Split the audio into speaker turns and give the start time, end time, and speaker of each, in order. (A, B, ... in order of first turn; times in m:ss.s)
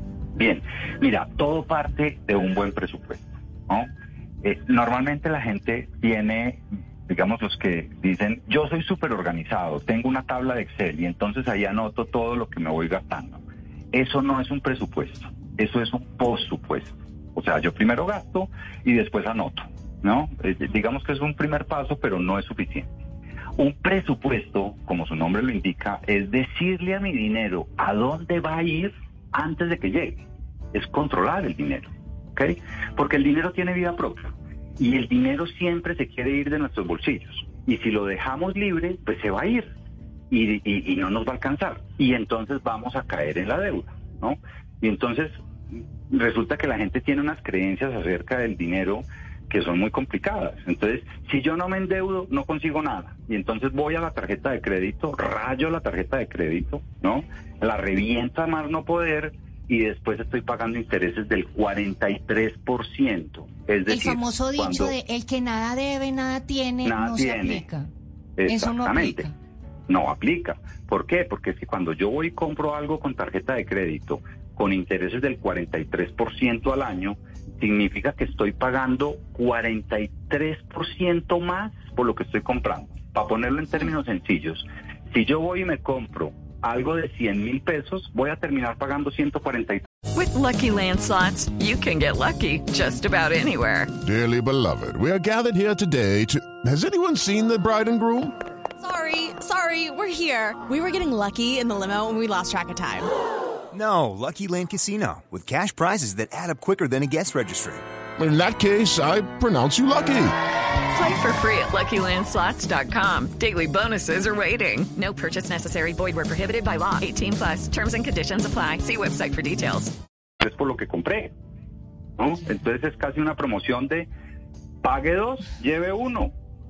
0:00.4-0:03.9 A
0:04.4-0:13.4 A
0:13.9-0:22.9 A
0:23.6-0:39.7 A
0:40.3-0:45.3 A
0:46.1-1:04.9 A
1:03.9-1:07.9 B
1:06.8-1:07.6 A
1:08.4-1:09.2 A
1:08.4-1:09.3 B
1:09.9-1:29.8 A
1:30.1-1:33.9 C
1:34.0-1:38.3 D
1:38.8-1:43.1 E
1:43.7-1:47.8 F
1:48.2-1:50.3 D
1:50.9-1:59.9 C
2:00.4-2:01.3 A
2:02.2-2:04.1 A
2:04.8-2:06.3 A